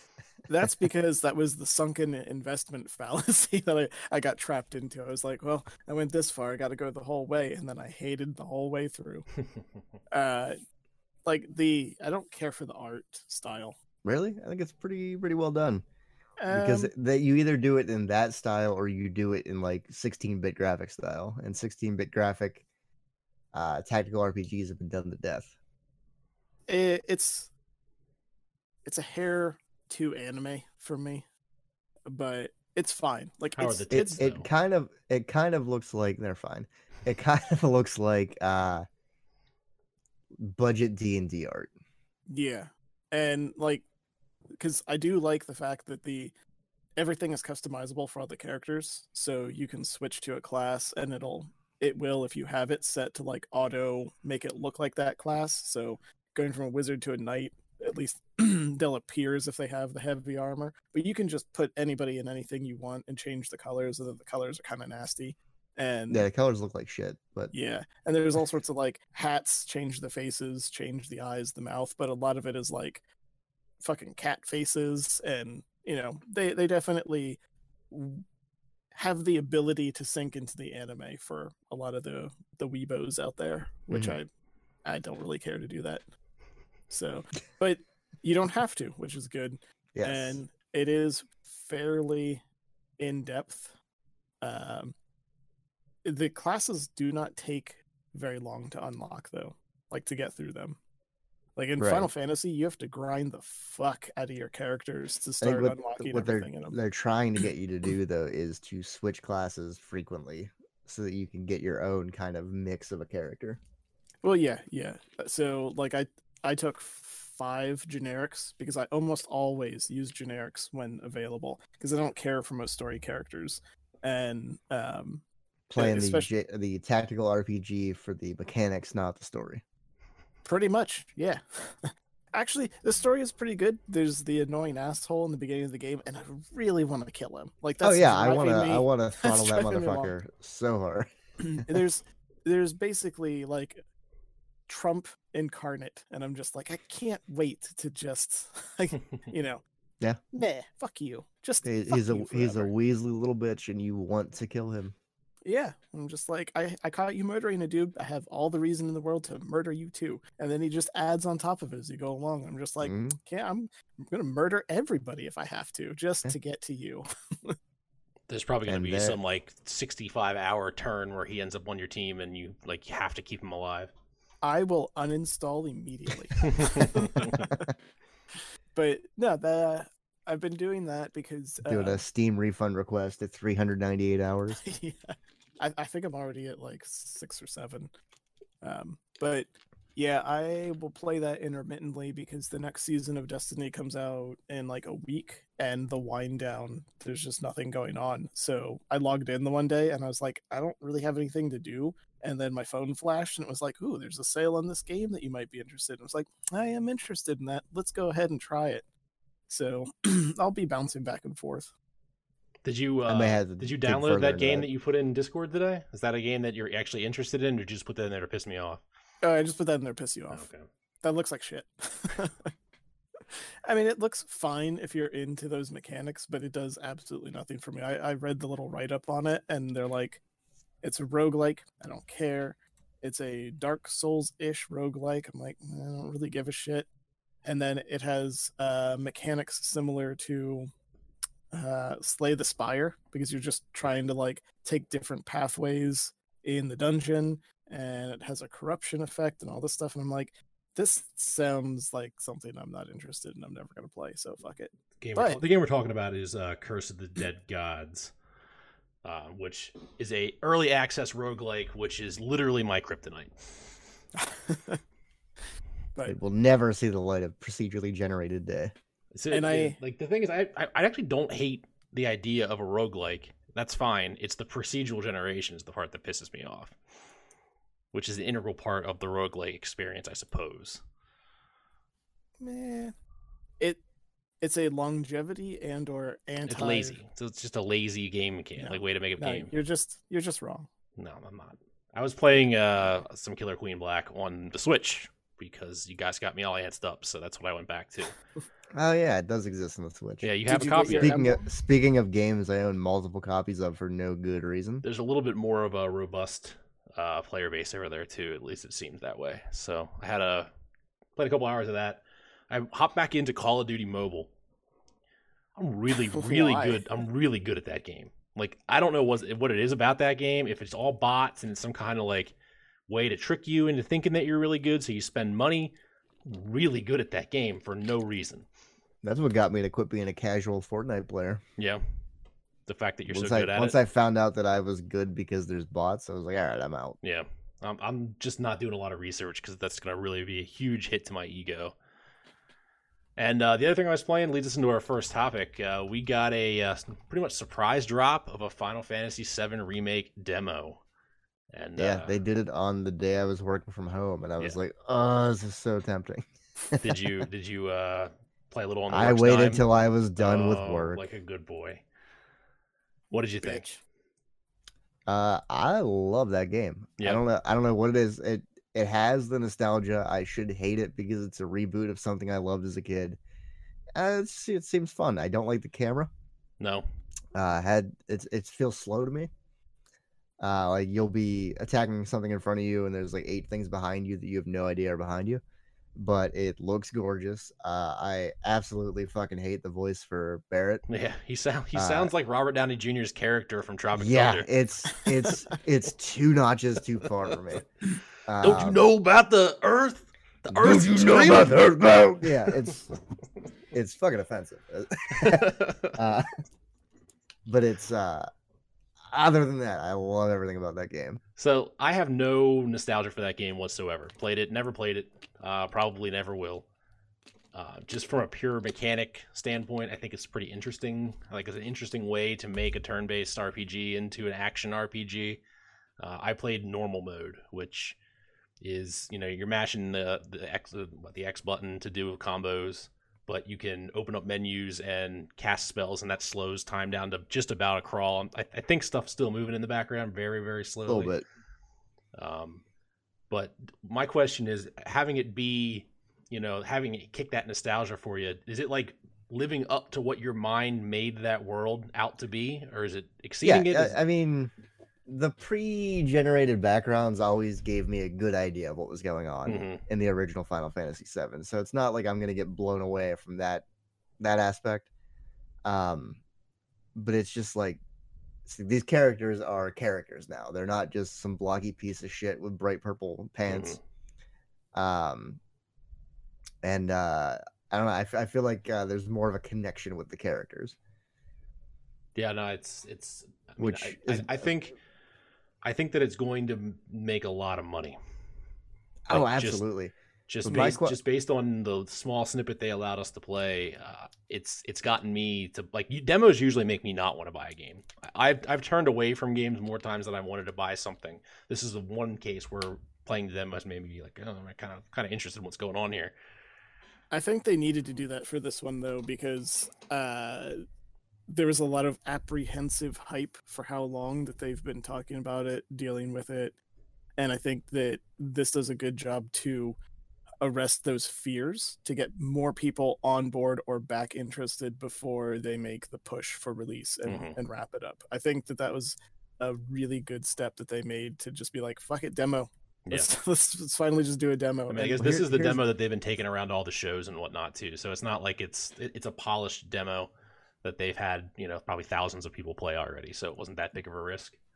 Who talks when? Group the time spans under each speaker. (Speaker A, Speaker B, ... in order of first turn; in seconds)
Speaker A: 0.5-9.2, 10.1-10.6, 11.2-13.7, 16.4-16.9, 26.7-27.5, 28.8-31.2, 32.1-34.2, 42.3-43.8, 44.6-46.3, 47.0-66.3, 67.5-73.0, 73.8-77.4, 77.9-78.2, 78.9-84.3, 84.8-86.0, 86.9-92.4, 93.0-93.7, 94.4-94.9, 96.0-100.8, 101.6-106.8, 114.2-125.2, 125.7-126.3, 130.4-140.1, 141.4-143.8, 144.7-149.6, 150.3-152.7, 155.4-167.6, 174.4-177.7, 178.7-182.0, 184.6-187.9, 188.6-208.8, 209.5-211.7, 219.2-220.4, 221.0-222.5, 223.6-230.2, 230.8-236.9, 237.4-240.7, 241.5-255.4, 264.1-264.8, 269.3-269.8, 282.4-282.9, 284.4-287.0, 288.6-290.7, 300.4-301.5, 316.1-316.8, 507.1-510.6, 511.3-516.5, 517.2-519.8, 520.4-535.5
Speaker B: 14.0-15.8, 16.5-22.6, 23.5-25.5, 33.9-38.8, 40.4-41.7, 66.1-67.5, 83.9-84.2, 89.9-90.4, 101.8-102.1, 105.4-113.6, 125.7-129.6, 137.8-141.6, 151.6-154.9, 162.8-163.2, 168.7-169.2, 181.6-184.6, 213.1-214.7, 266.1-268.7, 298.7-300.3, 300.9-304.8, 329.0-331.4, 333.1-337.0, 351.8-356.9, 358.9-361.1, 365.1-373.2, 373.9-376.1, 377.3-379.3, 380.4-385.4, 385.9-390.8, 391.7-392.1, 393.9-397.6, 398.3-398.8, 400.5-402.9, 403.7-406.3, 407.4-408.3, 409.1-411.2, 440.9-441.2, 453.4-454.5, 455.1-463.6, 464.2-464.9, 465.6-466.2, 466.9-467.8, 468.4-473.8, 474.7-475.4, 476.6-480.8, 483.6-484.5, 489.1-489.9, 490.4-491.0, 535.0-535.5
Speaker C: 33.5-34.5, 168.3-173.9, 176.5-177.4, 212.6-218.8, 220.3-220.7, 255.0-258.1, 259.0-263.4, 269.1-276.7, 277.9-280.8, 286.5-289.5, 291.0-298.1, 300.2-301.2, 304.8-310.5, 311.1-314.3, 315.6-322.3, 322.9-325.7, 326.2-328.4, 331.6-331.8, 332.7-333.8, 337.0-341.7, 343.2-350.8, 351.5-352.2, 356.8-359.6, 360.2-361.8, 363.1-363.8, 376.6-376.9, 390.9-394.5, 398.4-402.7, 405.1-406.0, 411.4-416.6, 417.5-425.4, 426.0-428.0, 428.6-441.1, 442.1-442.6, 443.3-454.0, 459.4-459.8, 473.5-473.8, 482.1-484.7, 485.6-488.0, 489.1-489.6, 490.3-506.1, 527.0-527.4, 534.7-540.1, 540.6-544.4